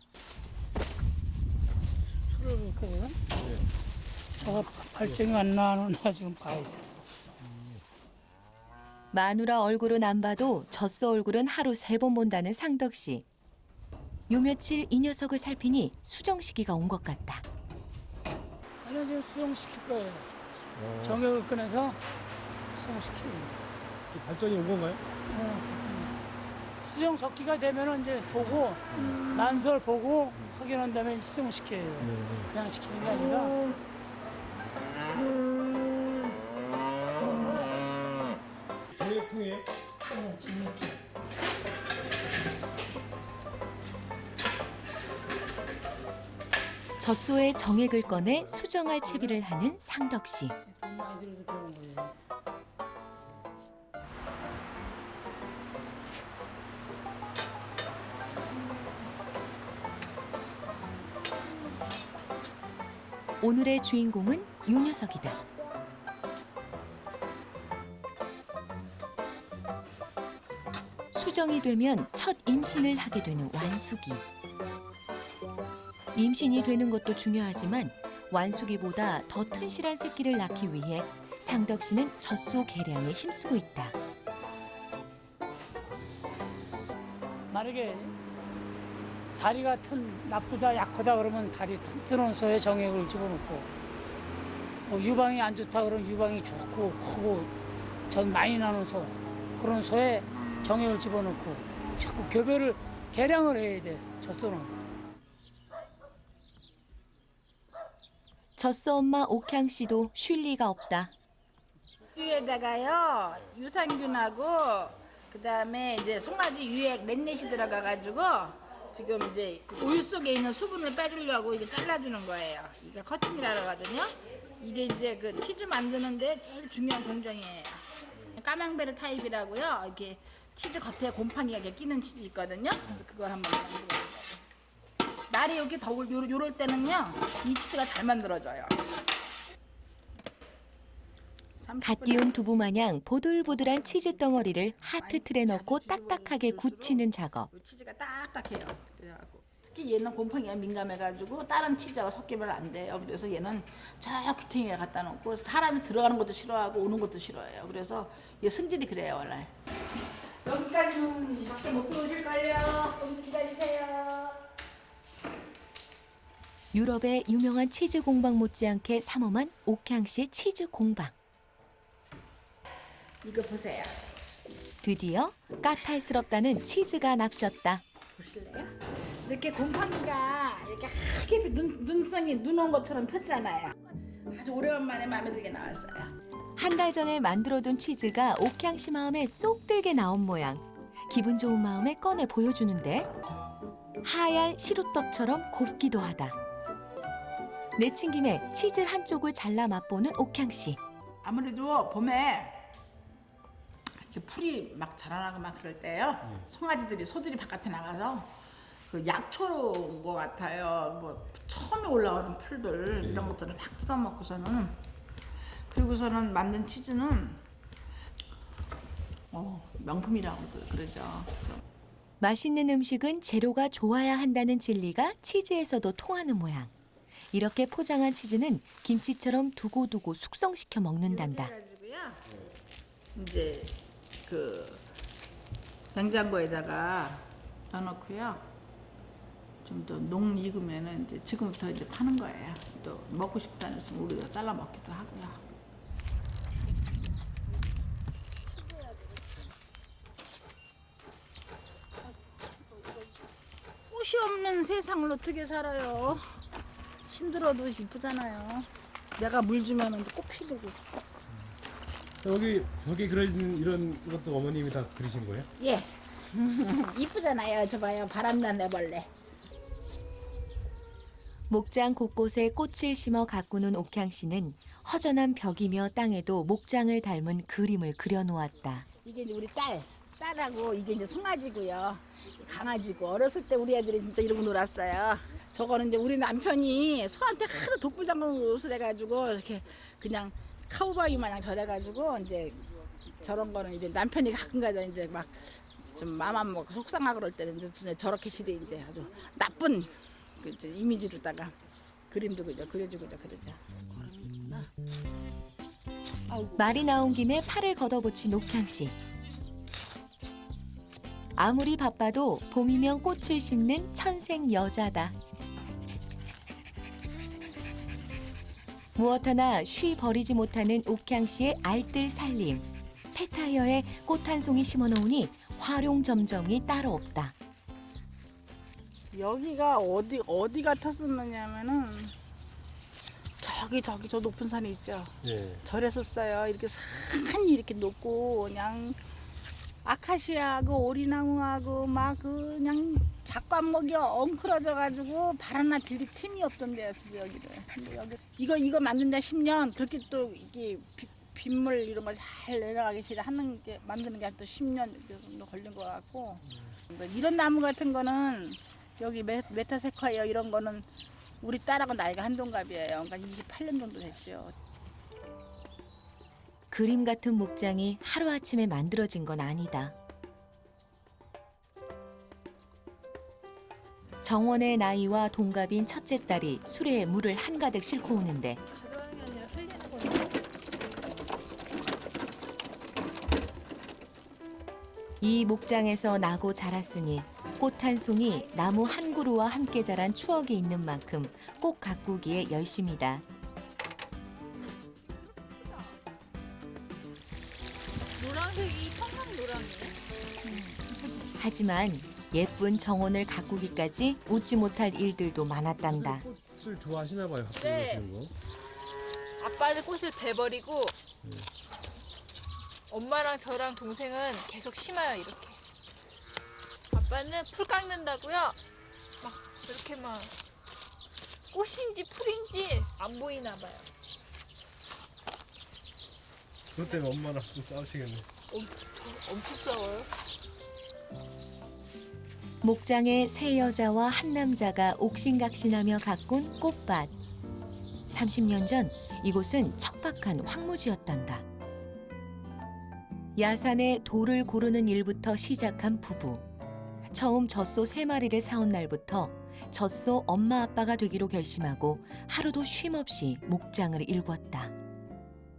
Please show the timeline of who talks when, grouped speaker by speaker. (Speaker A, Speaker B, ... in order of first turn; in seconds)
Speaker A: 2.3-3.2, 4.4-6.8, 18.8-20.3, 21.0-22.0, 22.7-23.6, 25.3-26.1, 26.8-33.6, 40.2-40.7, 50.7-52.2, 87.5-88.1, 89.4-93.7, 94.9-97.5, 98.1-104.8
Speaker B: 4.4-5.2, 7.4-7.8, 20.8-21.2, 24.1-25.0, 32.0-32.5, 39.0-39.7, 213.0-213.3, 262.2-265.5, 335.2-335.6, 405.9-408.3, 411.2-411.5, 426.8-428.3
Speaker C: 9.1-13.2, 14.3-17.4, 47.0-50.6, 63.4-65.4, 71.1-74.2, 76.1-84.0, 108.6-111.1, 141.8-147.5, 166.7-171.1, 174.8-177.8, 186.6-193.1, 194.0-196.4, 197.8-200.8, 222.2-226.7, 227.3-231.5, 271.5-278.9, 306.6-308.9, 311.4-315.1, 319.0-327.4, 366.7-369.9, 374.2-378.6, 385.2-393.2, 401.4-406.3, 432.6-437.1, 438.1-441.4, 443.4-446.4, 447.1-454.7
Speaker D: 112.1-134.4, 135.3-138.8, 141.6-142.6, 143.5-159.5, 160.4-164.4, 173.2-174.0, 178.2-178.7, 179.2-186.1, 201.2-202.6, 204.0-208.3, 208.9-214.8, 215.7-217.4, 219.3-221.6, 231.1-232.2, 233.2-234.8, 235.9-238.5, 239.6-245.4, 253.9-256.2, 257.1-260.8, 265.6-269.1, 279.0-292.7, 293.2-301.6, 302.1-304.7, 306.3-306.6, 329.1-332.1, 333.4-339.0, 339.8-360.9, 361.4-364.5, 398.2-399.9, 400.4-401.0
Speaker E: 378.7-380.3, 398.8-399.8, 407.6-408.0, 409.4-411.0, 412.9-415.6, 416.9-418.6, 419.2-420.3, 421.5-423.9, 428.5-430.1